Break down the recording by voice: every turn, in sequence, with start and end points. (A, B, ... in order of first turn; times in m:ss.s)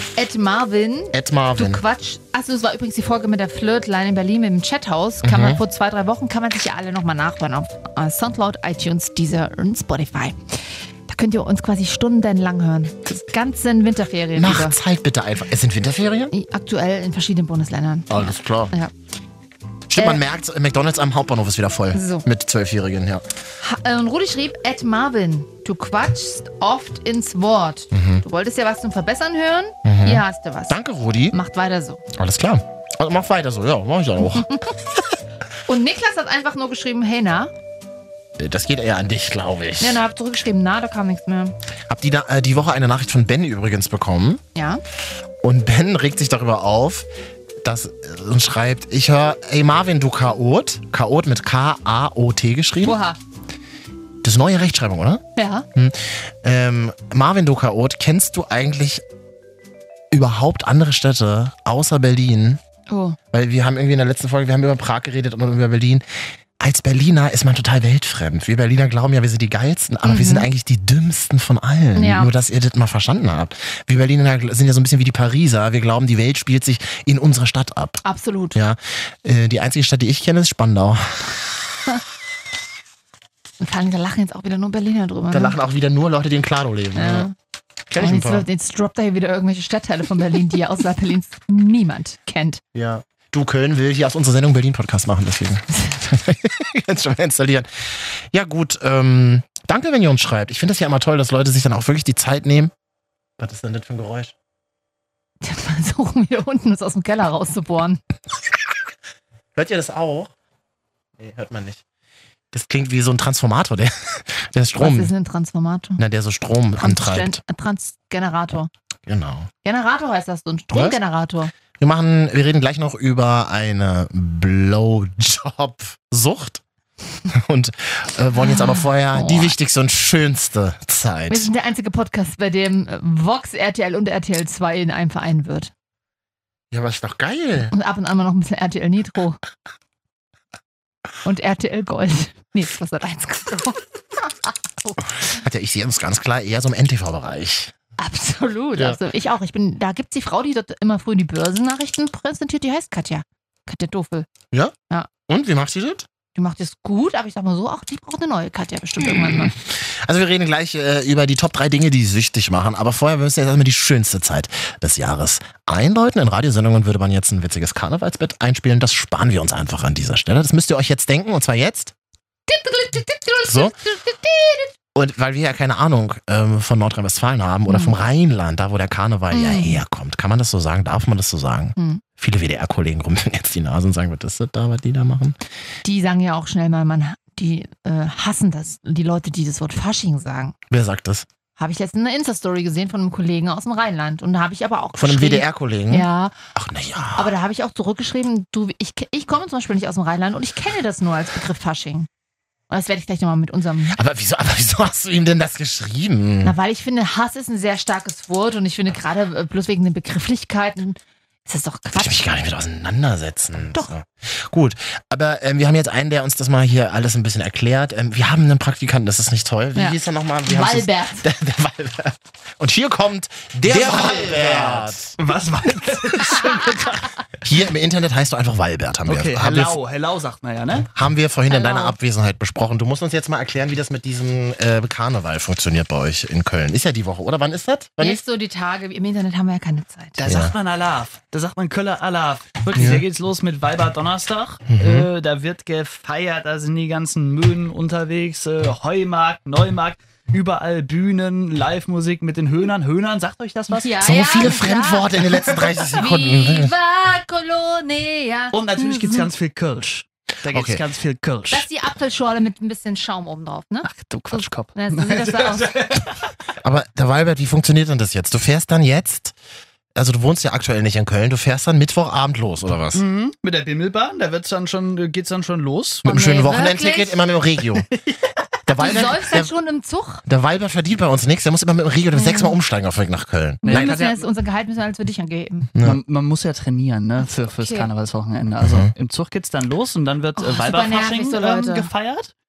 0:00.2-0:14.8 A
0:01.1-0:01.8 B
0:05.2-0:05.6 B
0:14.4-0:16.3 B
0:16.3-0:18.9 A
0:18.1-0:18.7 B
0:19.9-0:23.2 B
0:20.0-0:20.2 A
0:21.9-0:22.2 A
0:23.6-0:30.8 A
0:27.9-0:28.2 B
0:29.8-0:31.4 B
0:31.3-0:32.0 A
0:32.1-0:34.5 B
0:34.2-0:34.7 A
0:35.7-0:37.5 A
0:38.4-0:40.0 B
0:39.8-0:41.5 A
0:41.9-0:44.4 B
0:44.5-0:44.8 A
0:45.4-0:47.1 B
0:47.6-0:53.0 B
0:52.8-0:53.2 A
0:54.2-0:55.2 B
0:55.4-0:55.6 A
0:55.7-0:59.0 B
1:00.1-1:02.6 B
1:02.9-1:03.2 A
1:03.3-1:06.0 B
1:06.6-1:18.0 B
1:10.0-1:10.5 A
1:12.0-1:12.3 A
1:18.0-1:18.6 A
1:18.5-1:21.3 B
1:23.6-1:25.6 A
1:25.3-1:27.3 B
1:26.9-1:27.3 A
1:27.9-1:28.4 B
1:28.0-1:32.6 A
1:32.7-1:42.7 B
1:43.4-1:44.3 B
1:45.4-1:48.0 A
1:49.5-1:50.3 B
1:51.2-1:51.8 B
1:52.5-1:55.1 B
1:54.8-1:56.0 A
1:56.0-1:57.4 B
1:56.8-1:58.7 A
1:59.1-1:59.5 B
1:59.6-2:01.5 A
2:01.8-2:06.6 B
2:07.3-2:11.4 B
2:08.4-2:09.5 A
2:11.3-2:15.7 A
2:16.7-2:17.7 B
2:17.7-2:19.4 A
2:21.2-2:25.1 A
2:25.2-2:27.7 B
2:28.0-2:34.3 A
2:35.3-2:36.0 B
2:36.4-2:39.5 A
2:39.7-2:51.9 B
2:52.5-2:54.7 A
2:53.4-2:53.7 B
2:55.0-3:05.4 B
2:57.7-2:58.0 A
2:59.3-2:59.8 A
3:01.8-3:02.0 A
3:05.8-3:10.6 A
3:10.7-3:11.2 B
3:11.6-3:16.3 A
3:15.0-3:17.3 B
3:17.2-3:22.1 A
3:22.7-3:24.0 A
3:23.9-3:26.5 B
3:26.4-3:32.2 A
3:31.9-3:45.2 B
3:39.8-3:41.2 A
3:43.6-3:47.1 C
3:46.4-3:47.0 A
3:47.4-3:49.8 B
3:49.1-3:50.9 C
3:50.9-3:58.2 B
3:51.5-3:51.9 A
3:58.0-4:00.2 A
4:00.2-4:14.0 C
4:00.2-4:00.5 B
4:02.7-4:03.0 B
4:04.7-4:05.1 B
4:13.8-4:19.3 A
4:14.0-4:16.7 B
4:18.5-4:21.6 C
4:20.5-4:20.8 B
4:21.5-4:25.7 A
4:23.8-4:26.3 C
4:26.6-4:29.3 B
4:29.9-4:33.0 B
4:32.9-4:36.1 C
4:36.0-4:37.2 A
4:36.0-4:37.9 B
4:37.8-4:38.9 C
4:38.7-4:39.5 B
4:38.8-4:40.2 A
4:40.2-4:43.9 B
4:42.1-4:42.6 A
4:43.6-4:45.7 A
4:43.6-4:44.2 C
4:45.7-4:46.0 B
4:45.8-4:52.3 C
4:47.2-4:47.9 A
4:48.6-4:48.9 B
4:50.4-4:51.9 A